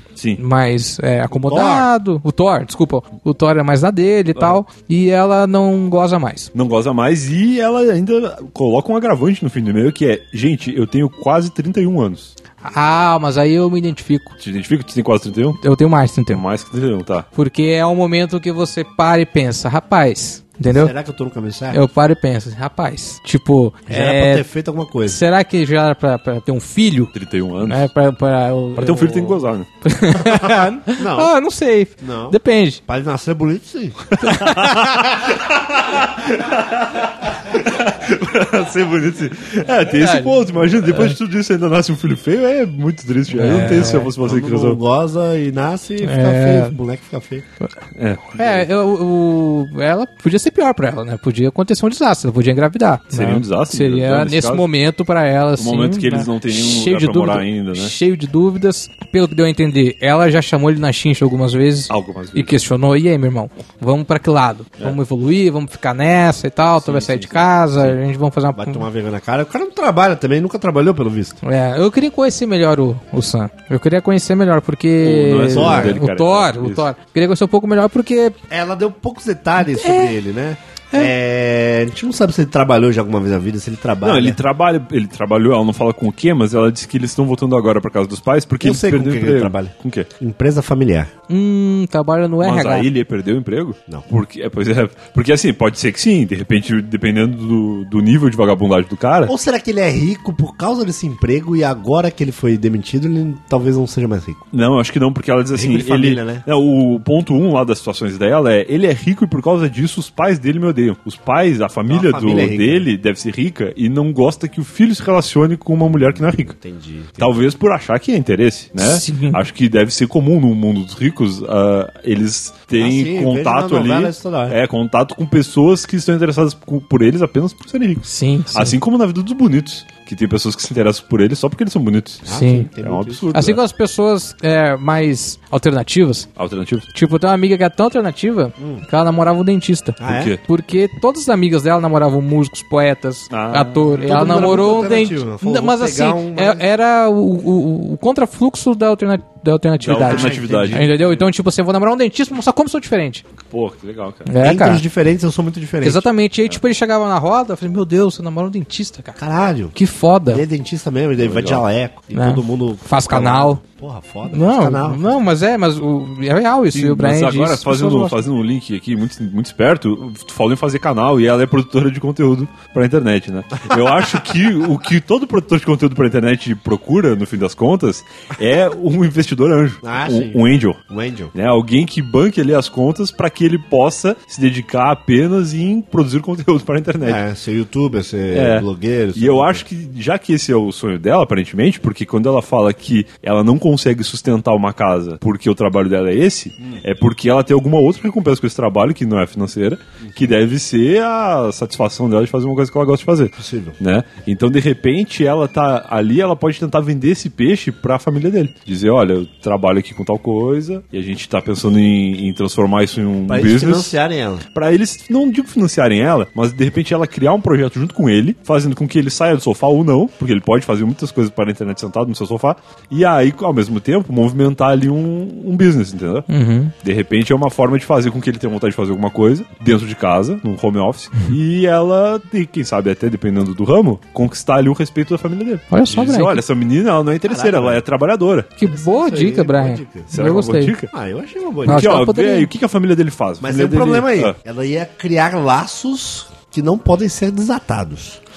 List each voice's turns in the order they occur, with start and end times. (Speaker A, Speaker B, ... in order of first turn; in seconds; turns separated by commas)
Speaker A: 0.3-6.5, Speaker B: 1.4-1.9, Speaker C: 6.5-12.3, Speaker A: 12.6-14.4, Speaker C: 14.4-15.6, Speaker A: 15.6-16.4, Speaker C: 16.3-17.3, Speaker A: 17.3-20.9, Speaker B: 20.7-21.9, Speaker A: 21.7-24.5, Speaker B: 23.9-25.2, Speaker A: 25.0-32.8, Speaker C: 27.1-27.9, Speaker C: 28.8-29.7, Speaker B: 30.2-31.3, Speaker B: 32.0-34.0, Speaker C: 34.1-44.8, Speaker A: 34.2-34.9, Speaker A: 39.9-41.2, Speaker A: 43.3-44.1, Speaker B: 44.2-47.5, Speaker A: 46.0-46.8, Speaker C: 48.0-48.7, Speaker A: 48.3-68.9, Speaker C: 53.1-54.7, Speaker C: 55.6-57.9, Speaker C: 61.9-62.6, Speaker C: 66.8-68.0, Speaker B: 67.0-67.4, Speaker B: 68.5-71.4, Speaker A: 71.4-78.4, Speaker C: 75.0-76.9, Speaker B: 75.5-76.0, Speaker B: 78.5-84.4, Speaker A: 79.6-80.2, Speaker C: 84.0-90.1, Speaker B: 88.6-91.1, Speaker A: 91.3-92.9, Speaker C: 92.4-99.3, Speaker B: 99.3-104.4, Speaker C: 104.5-116.6, Speaker B: 105.5-106.5, Speaker B: 111.9-112.9, Speaker B: 116.4-117.5, Speaker C: 117.2-132.3, Speaker A: 118.8-119.4, Speaker B: 122.8-124.6, Speaker A: 128.0-128.8, Speaker A: 132.3-132.7, Speaker B: 132.3-133.3, Speaker C: 132.8-133.6, Speaker A: 133.3-136.3, Speaker C: 136.4-136.9, Speaker A: 136.9-153.2, Speaker B: 138.6-138.8, Speaker B: 140.0-140.3, Speaker C: 140.0-140.4, Speaker C: 143.3-144.8, Speaker B: 144.0-146.7, Speaker C: 149.8-151.3, Speaker B: 150.0-150.9, Speaker C: 153.5-154.3, Speaker A: 154.3-154.8, Speaker B: 154.4-156.1, Speaker A: 155.8-159.2, Speaker B: 159.2-159.8, Speaker A: 159.7-160.4, Speaker B: 160.3-165.2, Speaker C: 161.2-161.7, Speaker A: 162.1-163.6, Speaker A: 164.3-168.2, Speaker C: 166.7-180.8, Speaker B: 179.8-181.3, Speaker C: 181.3-187.2, Speaker B: 187.0-189.6, Speaker C: 188.3-214.0, Speaker B: 203.4-203.8, Speaker B: 213.3-214.4, Speaker C: 214.5-226.3, Speaker A: 226.3-226.7, Speaker C: 226.8-238.5, Speaker A: 235.7-236.4, Speaker B: 237.2-237.8, Speaker A: 238.6-240.8, Speaker B: 238.6-240.1, Speaker C: 240.1-240.9, Speaker B: 240.9-241.9, Speaker A: 241.7-242.5, Speaker C: 241.7-244.4, Speaker B: 243.4-248.2